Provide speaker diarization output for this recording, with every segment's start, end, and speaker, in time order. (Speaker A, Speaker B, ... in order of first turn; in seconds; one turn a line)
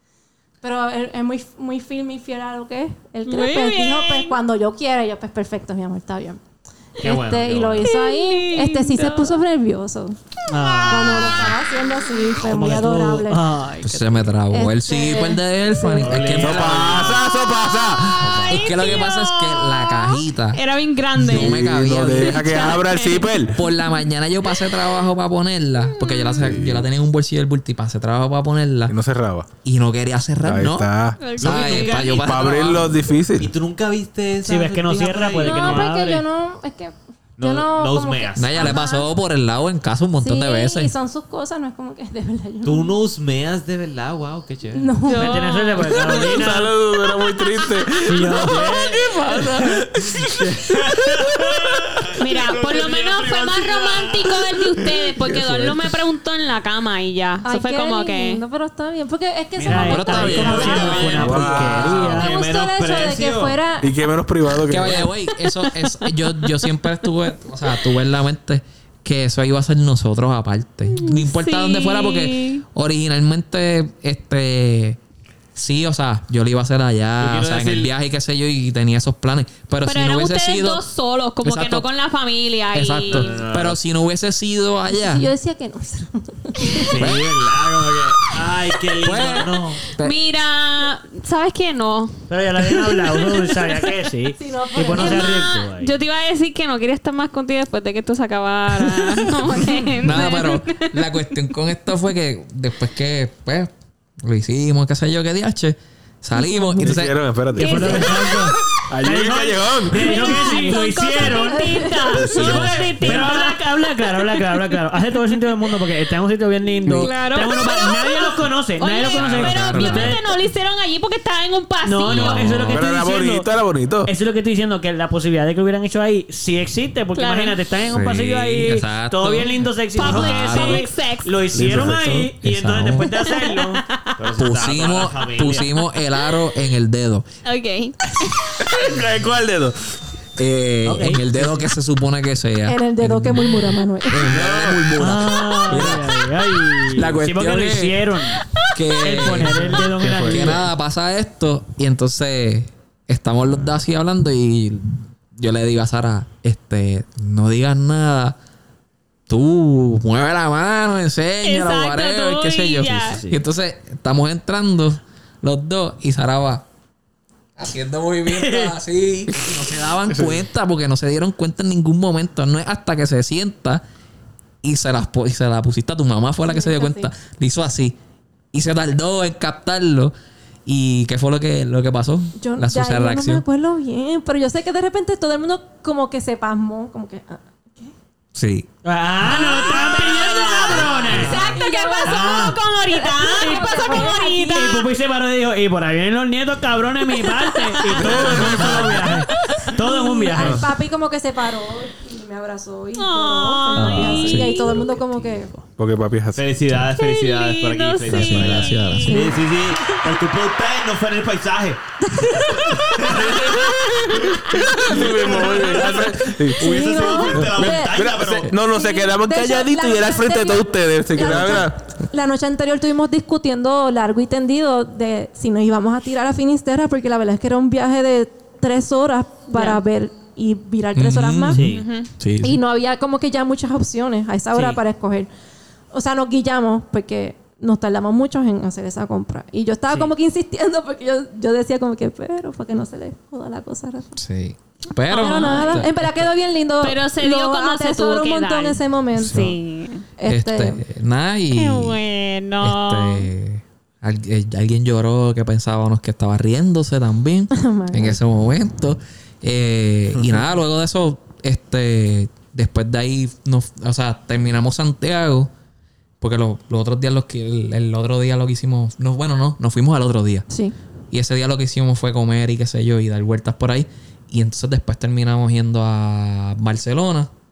Speaker A: 0.6-6.4
Speaker B: 3.3-4.4
Speaker A: 7.0-10.2
Speaker C: 7.0-7.9
Speaker B: 7.8-9.4
Speaker D: 10.5-11.5
Speaker B: 10.6-11.6
Speaker A: 10.8-13.4
Speaker D: 12.4-14.3
Speaker E: 13.8-17.1
Speaker A: 14.5-16.2
Speaker C: 16.0-17.3
Speaker F: 16.3-18.6
Speaker B: 18.1-24.0
Speaker E: 18.4-20.6
Speaker E: 21.2-22.7
Speaker F: 21.2-23.6
Speaker E: 23.5-28.9
Speaker B: 25.8-26.5
Speaker F: 26.4-26.9
Speaker F: 28.9-29.5
Speaker E: 29.6-32.8
Speaker F: 30.4-33.5
Speaker B: 31.2-32.1
Speaker C: 31.4-36.0
Speaker D: 34.5-36.2
Speaker A: 35.5-39.1
Speaker C: 37.4-38.8
Speaker E: 38.4-40.9
Speaker A: 40.2-43.0
Speaker C: 42.6-44.9
Speaker A: 44.7-45.5
Speaker B: 45.0-46.5
Speaker D: 45.1-46.7
Speaker F: 45.8-51.8
Speaker D: 48.0-49.0
Speaker C: 50.9-51.4
Speaker C: 52.1-54.4
Speaker B: 52.2-58.4
Speaker F: 55.2-56.0
Speaker A: 57.4-61.3
Speaker D: 59.6-62.3
Speaker E: 59.7-61.8
Speaker C: 60.1-63.6
Speaker F: 61.2-61.9
Speaker A: 62.1-63.9
Speaker F: 63.8-65.1
Speaker E: 64.7-75.0
Speaker B: 65.4-66.7
Speaker B: 70.9-72.6
Speaker E: 75.5-80.8
Speaker C: 77.2-77.9
Speaker B: 79.8-83.4
Speaker E: 81.4-81.9
Speaker E: 82.7-85.3
Speaker C: 83.1-83.8
Speaker A: 84.9-87.1
Speaker C: 86.8-89.9
Speaker E: 87.0-87.3
Speaker E: 89.0-90.2
Speaker B: 90.0-93.8
Speaker D: 92.3-96.0
Speaker A: 94.4-95.4
Speaker B: 94.9-101.0
Speaker E: 100.0-103.7
Speaker E: 104.2-107.2
Speaker A: 106.3-106.9
Speaker F: 106.8-108.1
Speaker B: 107.6-108.5
Speaker D: 107.6-120.2
Speaker F: 108.9-110.3
Speaker B: 109.9-113.6
Speaker A: 111.2-112.5
Speaker E: 112.2-113.3
Speaker B: 116.9-122.7
Speaker E: 119.0-120.2
Speaker D: 121.8-123.5
Speaker E: 122.1-122.9
Speaker F: 122.7-124.1
Speaker D: 124.0-133.9
Speaker B: 127.2-127.6
Speaker E: 127.9-130.9
Speaker B: 129.9-131.3
Speaker E: 131.5-133.1
Speaker B: 133.2-133.8
Speaker C: 134.2-135.8
Speaker E: 134.4-137.2
Speaker B: 137.4-138.0
Speaker F: 138.6-139.8
Speaker E: 140.4-146.3
Speaker D: 140.8-141.7
Speaker A: 142.7-144.3
Speaker F: 144.3-144.8
Speaker D: 145.0-148.5
Speaker E: 146.9-148.0
Speaker E: 148.7-158.4
Speaker D: 149.0-150.7
Speaker F: 149.7-150.6
Speaker E: 159.3-166.7
Speaker B: 161.4-163.2
Speaker D: 163.1-163.4
Speaker E: 167.6-173.8
Speaker D: 168.3-168.8
Speaker F: 170.1-170.4
Speaker E: 174.6-178.0
Speaker A: 176.5-177.1
Speaker E: 178.5-180.1
Speaker E: 180.7-183.4
Speaker A: 182.4-187.9
Speaker E: 188.3-188.7
Speaker D: 188.8-191.5
Speaker B: 189.2-194.9
Speaker C: 191.1-191.5
Speaker A: 191.5-194.8
Speaker D: 192.0-192.6
Speaker D: 193.6-200.7
Speaker B: 197.2-198.7
Speaker C: 198.0-199.1
Speaker B: 199.3-199.7
Speaker A: 199.8-205.5
Speaker F: 200.4-200.7
Speaker B: 202.9-204.9
Speaker D: 203.8-205.6
Speaker E: 204.3-204.6
Speaker F: 205.8-206.4
Speaker C: 206.3-211.8
Speaker B: 206.9-209.2
Speaker E: 208.1-209.4
Speaker A: 209.1-210.0
Speaker A: 212.0-213.3
Speaker C: 212.8-213.8
Speaker F: 213.0-221.8
Speaker A: 213.9-216.0
Speaker C: 214.9-218.6
Speaker A: 216.6-231.7
Speaker B: 229.5-229.8
Speaker E: 230.9-232.6
Speaker D: 231.5-231.8
Speaker B: 231.7-232.1
Speaker A: 232.4-235.3
Speaker D: 234.5-234.8
Speaker A: 235.9-244.1
Speaker E: 244.2-246.2
Speaker B: 245.1-245.9
Speaker A: 245.1-249.5
Speaker B: 246.8-250.1
Speaker E: 249.2-249.6
Speaker A: 250.2-250.8
Speaker E: 250.3-252.0
Speaker B: 251.5-253.3
Speaker E: 252.6-265.5
Speaker A: 257.5-258.2
Speaker E: 266.2-270.5
Speaker E: 271.1-277.3